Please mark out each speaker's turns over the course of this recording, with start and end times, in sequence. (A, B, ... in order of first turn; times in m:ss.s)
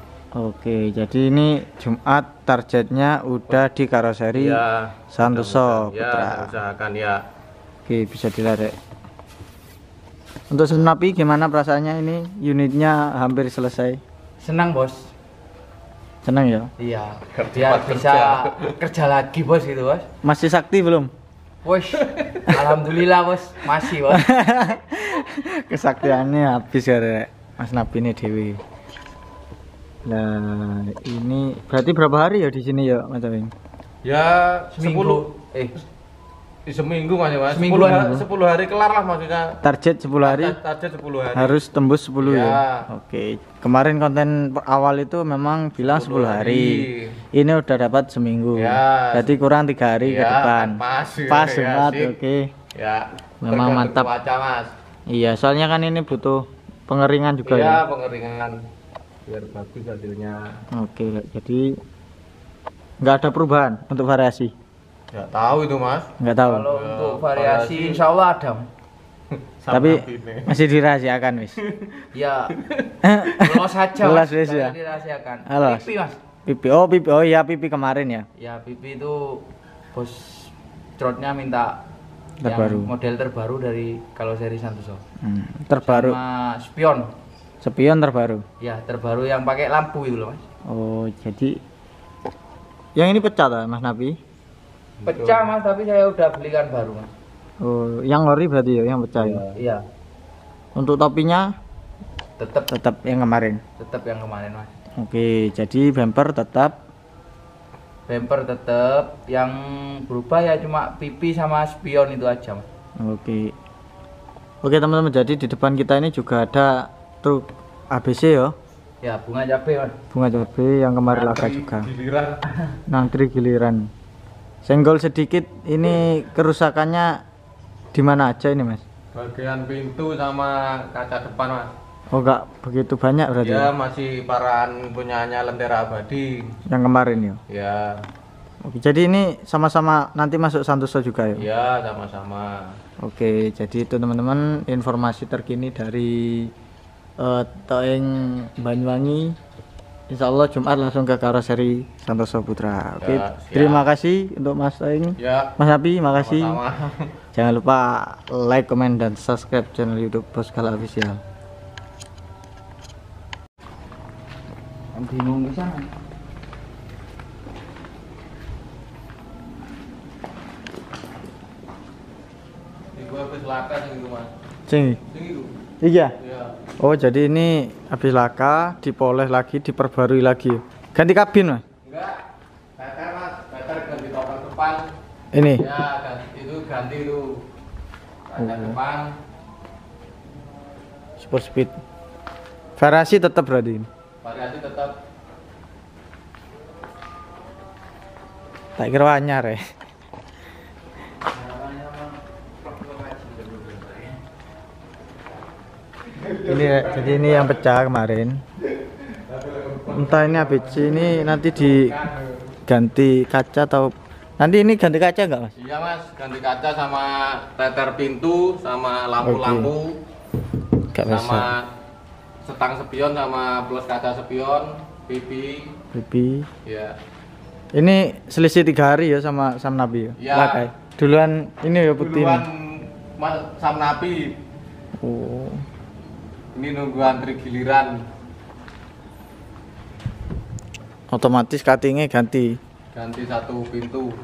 0:00.3-0:06.5 A
0:04.3-0:07.2 B
0:07.8-0:08.8 A
0:10.5-0:14.0 A
0:14.4-0:15.1 C
0:16.2-0:16.7 A
0:16.8-0:20.0 C
0:17.3-0:18.8 B
0:20.2-0:21.1 A
0:21.6-0:24.3 C
0:22.0-0:22.6 B
0:24.0-0:28.6 A
0:30.0-0:33.5 A
0:34.0-0:35.2 B
0:34.7-0:35.7 C
0:36.6-0:39.6 B
0:37.5-0:38.2 C
0:39.6-0:40.6 A
0:40.2-0:41.6 B
0:41.3-0:46.8 A
0:42.2-0:42.9 B
0:45.8-0:47.2 B
0:47.3-0:52.5 A
0:48.5-0:49.4 B
0:50.0-0:52.2 B
0:52.7-0:54.7 B
0:53.4-0:54.1 A
0:55.1-0:57.8 A
0:57.4-0:58.5 B
0:59.3-1:00.6 B
1:00.7-1:01.8 A
1:03.0-1:04.5 A
1:05.1-1:06.1 B
1:06.2-1:06.7 A
1:06.4-1:08.7 C
1:06.7-1:08.0 B
1:09.3-1:10.6 B
1:09.7-1:11.6 A
1:11.6-1:12.0 B
1:12.1-1:12.5 C
1:12.6-1:12.9 B
1:13.0-1:14.8 A
1:13.3-1:16.2 C
1:15.5-1:15.9 A
1:16.4-1:18.3 A
1:18.4-1:21.8 C
1:22.4-1:22.9 A
1:22.4-1:25.0 C
1:25.2-1:26.2 A
1:25.8-1:27.1 C
1:27.6-1:28.4 A
1:28.6-1:30.4 C
1:30.7-1:31.6 A
1:33.0-1:34.2 A
1:35.0-1:35.5 B
1:35.0-1:37.1 C
1:37.6-1:39.4 A
1:39.2-1:39.6 B
1:39.5-1:39.8 C
1:40.7-1:41.5 A
1:42.4-1:42.7 C
1:42.7-1:43.6 A
1:43.8-1:44.7 C
1:45.0-1:46.8 A
1:48.1-1:52.6 C
1:53.0-1:53.5 A
1:54.6-1:58.5 A
1:59.0-1:59.9 C
2:00.1-2:01.9 A
2:01.1-2:02.4 B
2:02.9-2:03.9 A
2:04.6-2:07.2 A
2:07.9-2:08.8 A
2:09.1-2:11.7 B
2:12.1-2:13.7 A
2:13.4-2:16.4 B
2:16.7-2:17.4 A
2:17.5-2:18.0 B
2:18.6-2:21.5 A
2:21.4-2:22.8 B
2:23.0-2:26.5 A
2:27.2-2:29.4 A
2:30.1-2:36.6 A
2:33.0-2:33.8 B
2:35.2-2:35.5 B
2:36.1-2:37.1 B
2:37.3-2:41.2 A
2:44.9-2:45.9 C
2:53.0-2:54.3 B
2:54.7-2:55.0 A
2:55.1-2:55.5 B
2:55.8-2:56.1 A
2:56.2-2:56.5 B
2:56.8-3:01.6 A
3:01.8-3:02.2 B
3:02.8-3:04.9 B
3:05.3-3:05.8 A
3:05.6-3:07.4 B
3:08.3-3:09.1 B
3:08.4-3:08.8 A
3:11.2-3:11.8 A
3:12.8-3:13.9 A
3:14.2-3:15.0 B
3:18.8-3:19.6 A
3:21.3-3:24.2 C
3:26.2-3:27.6 B
3:26.4-3:28.4 A
3:29.0-3:32.0 B
3:29.8-3:32.0 A
3:32.7-3:35.5 A
3:35.6-3:40.0 B
3:39.2-3:39.7 A
3:40.9-3:41.5 A
3:41.0-3:41.6 B
3:42.4-3:45.7 B
3:45.9-3:46.5 A
3:46.6-3:47.0 B
3:47.7-3:52.4 A
3:50.2-3:50.7 B
3:51.9-3:54.4 B
3:55.0-3:55.6 A
3:56.5-3:58.0 B
4:01.1-4:02.6 A
4:02.9-4:04.1 B